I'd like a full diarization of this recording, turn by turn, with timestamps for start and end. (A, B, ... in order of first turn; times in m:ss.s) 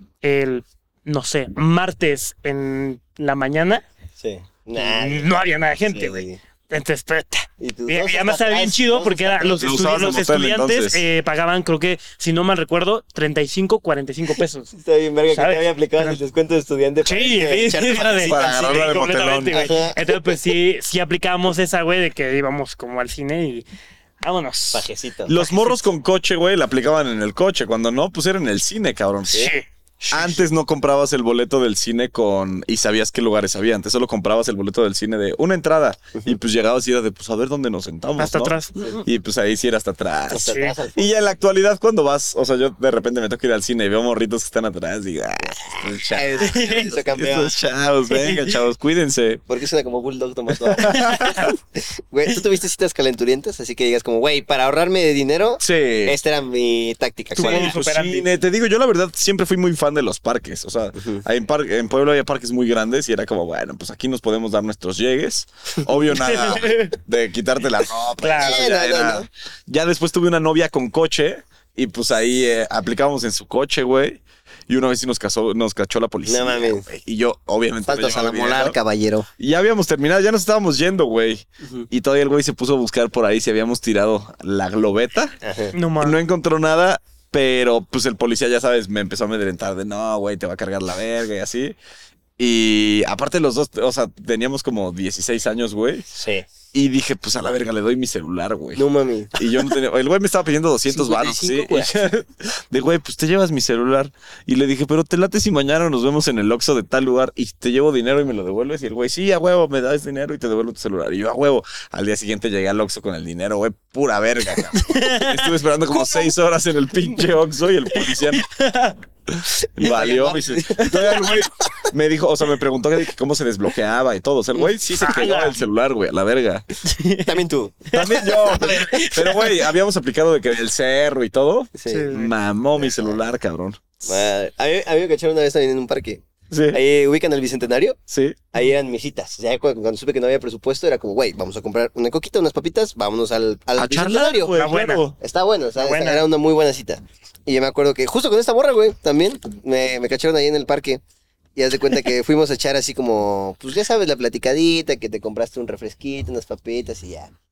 0:00.2-0:03.8 A
0:04.2-0:05.3 B
0:04.8-0:14.7 A
0:05.9-0:06.4 B
0:07.6-0:09.8 B
0:09.6-0:11.0 C
0:14.7-0:18.9 B
0:15.3-0:16.2 A
0:17.0-0:23.6 A
0:18.3-0:19.6 C
0:19.5-0:20.4 B
0:24.2-0:24.9 A
0:24.7-0:25.3 B
0:25.3-0:29.5 C
0:25.4-0:25.8 A
0:29.3-0:30.5 A
0:30.1-0:46.5 C
0:38.2-0:39.0 A
0:40.3-0:41.1 B
0:40.5-0:40.8 A
0:45.4-0:47.7 B
0:46.4-0:47.0 A
0:47.1-0:49.4 C
0:48.1-0:48.6 A
0:49.5-0:57.8 B
0:50.5-0:51.6 C
0:50.9-0:51.4 A
0:55.6-0:56.2 C
0:57.4-0:58.3 A
0:57.4-1:18.8 C
1:01.0-1:01.2 B
1:06.1-1:07.0 A
1:08.2-1:08.6 A
1:08.4-1:09.3 B
1:16.3-1:16.9 B
1:17.9-1:19.3 B
1:19.4-1:25.4 C
1:21.6-1:21.9 B
1:25.4-1:25.8 B
1:25.8-1:26.2 A
1:26.0-1:31.8 C
1:32.4-1:36.1 C
1:36.1-1:36.4 B
1:36.7-1:38.8 C
1:38.8-1:39.4 B
1:39.3-1:58.5 C
1:40.9-1:42.0 B
1:54.8-1:56.3 A
1:58.0-1:59.0 A
1:59.3-2:06.6 C
1:59.8-2:01.5 B
2:04.8-2:05.6 A
2:06.8-2:09.6 A
2:07.2-2:09.1 B
2:07.9-2:13.8 C
2:11.8-2:12.1 B
2:11.9-2:12.3 A
2:12.8-2:13.2 B
2:14.0-2:18.0 B
2:16.5-2:16.8 C
2:18.1-2:18.4 C
2:18.5-2:24.6 B
2:23.8-2:25.2 C
2:24.5-2:25.0 A
2:25.2-2:31.0 B
2:25.8-2:26.2 A
2:31.6-2:37.3 B